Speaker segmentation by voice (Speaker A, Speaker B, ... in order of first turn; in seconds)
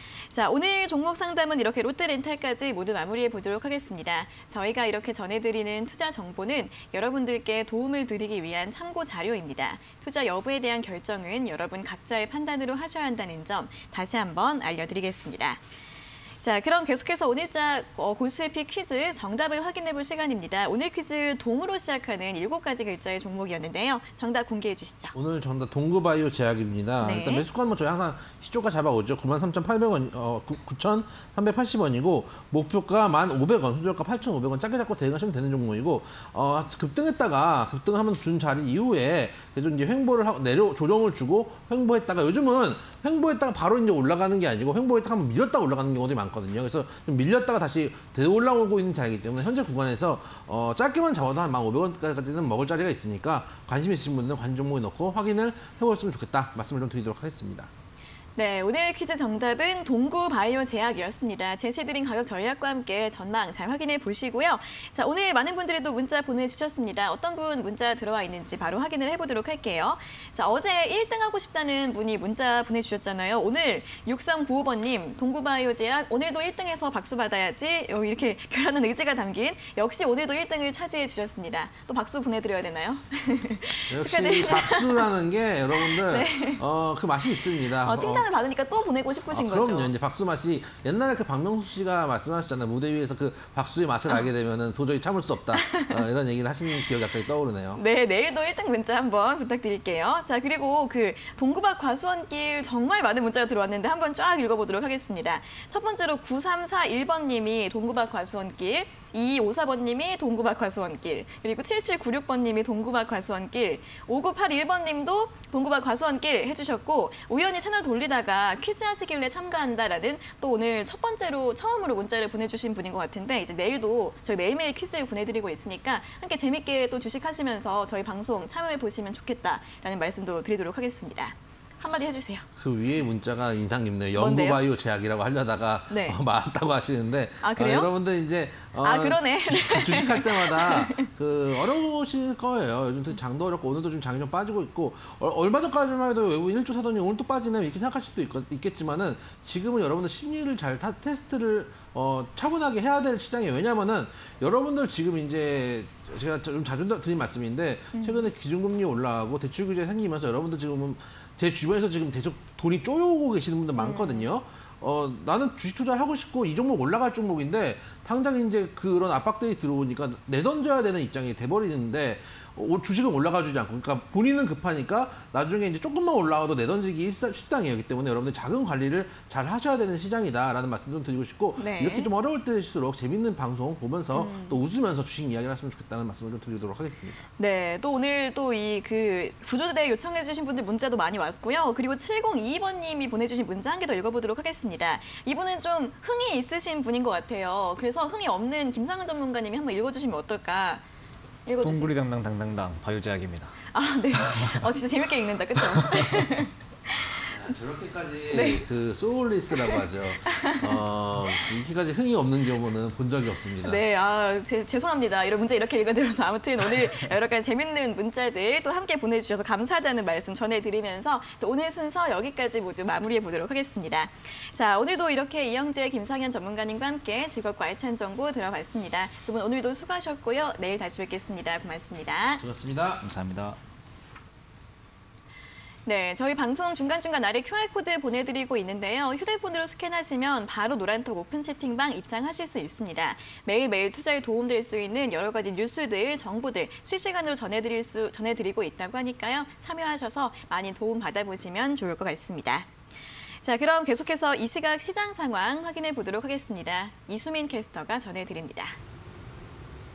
Speaker A: 0.3-15.6, 16.4-25.1, 27.0-27.4, 58.4-85.1, 85.7-86.6, 87.8-89.9, 95.5-96.0, 97.7-132.4, 134.2-134.6, 135.9-136.2, 137.4-137.9, 138.8-141.1, 157.9-158.3, 163.8-164.3, 181.6-182.1, 184.1-184.6, 187.4-200.8, 201.4-201.9, 203.7-206.9, 208.3-208.6, 210.3-210.8, 213.6-232.4, 235.9-252.7, 253.4-258.8
Speaker B: 25.1-57.7, 83.9-88.3, 89.3-97.8, 132.6-187.2, 207.2-213.8, 232.4-233.0
Speaker C: 201.6-203.6, 204.2-204.6, 233.0-233.6